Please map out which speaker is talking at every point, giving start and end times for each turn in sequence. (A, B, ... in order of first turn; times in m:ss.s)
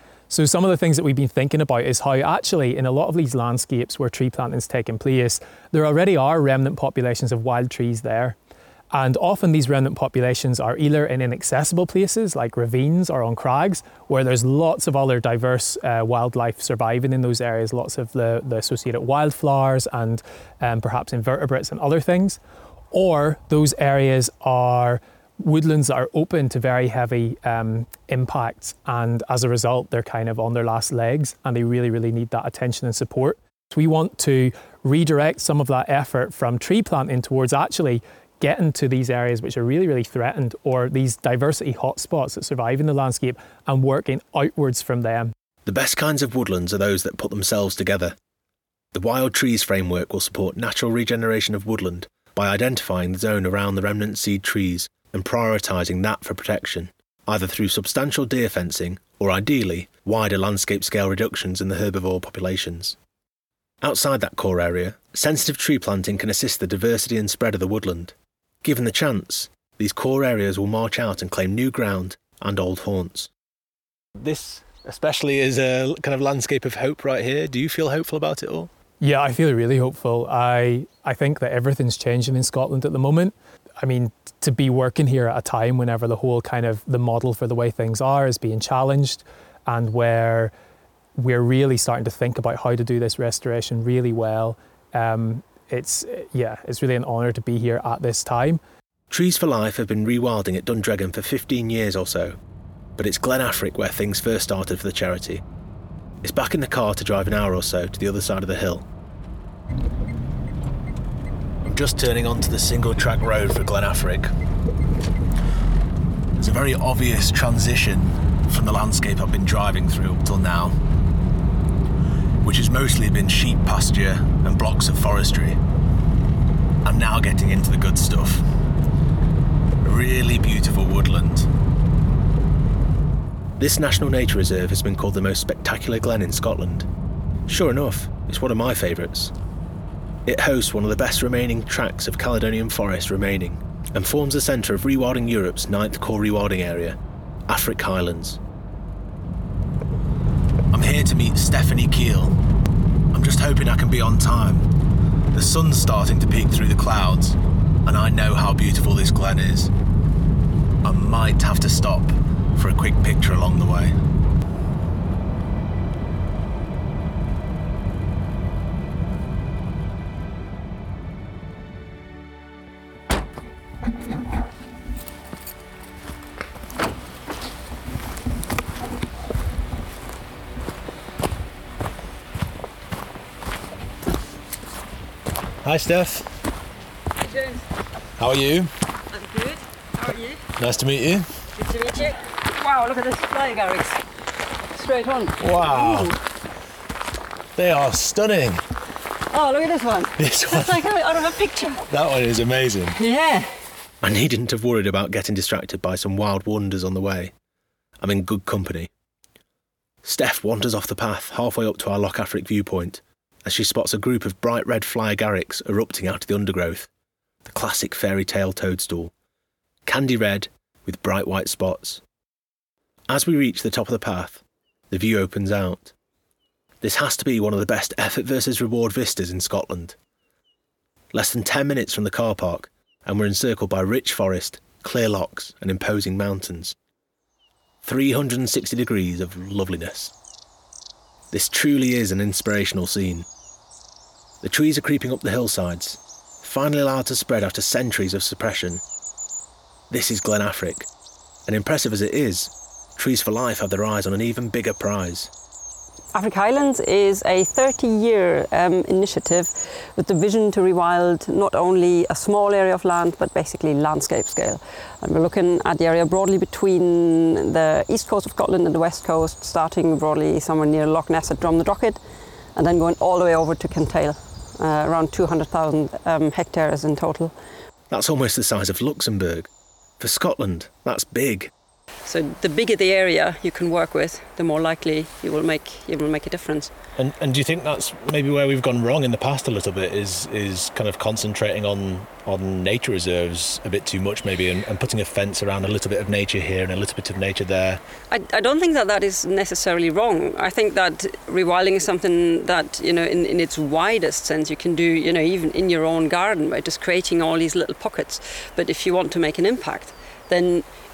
0:00.3-0:08.4 A
0:08.9-0:22.4 A
0:22.9-0:45.3 A
0:45.6-0:48.2 B
0:48.9-1:03.0 B
1:03.8-1:13.3 B
1:14.2-1:18.7 B
1:19.0-1:30.5 A
1:31.2-1:38.6 A
1:39.1-1:42.4 B
1:43.0-1:45.4 B
1:46.2-1:48.8 B
1:51.7-1:54.3 B
1:56.4-2:00.8 B
2:02.4-2:05.6 B
2:06.8-2:08.4 B
2:09.8-2:11.5 B
2:13.6-2:16.9 B
2:17.5-2:19.3 B
2:20.2-2:28.4 B
2:30.7-2:32.4 B
2:33.1-2:34.7 B
2:35.3-2:39.7 B
2:40.8-2:44.0 B
3:05.6-3:06.3 B
3:07.2-3:07.6 C
3:08.2-3:08.7 B
3:09.1-3:10.4 C
3:10.6-3:11.3 B
3:11.6-3:14.0 C
3:14.7-3:16.1 C
3:15.4-3:16.1 B
3:17.6-3:18.6 B
3:19.3-3:21.8 C
3:20.2-3:20.8 B
3:21.9-3:23.0 B
3:23.0-3:23.6 C
3:24.0-3:27.3 B
3:28.0-3:28.9 B
3:30.0-3:36.9 B
3:37.4-3:39.1 B
3:39.8-3:42.0 B
3:43.1-3:45.9 B
3:46.8-3:50.0 B
3:51.1-3:56.8 B
3:57.8-4:00.1 B
4:01.3-4:03.3 B
4:04.4-4:08.8 B
4:09.9-4:10.9 B
4:11.4-4:15.3 B
4:16.1-4:32.0 C
4:32.5-4:37.3 C
4:37.9-4:39.5 B
4:40.0-4:41.5 B
4:42.0-4:46.7 C
4:47.0-4:57.8 B
4:58.1-5:10.7 C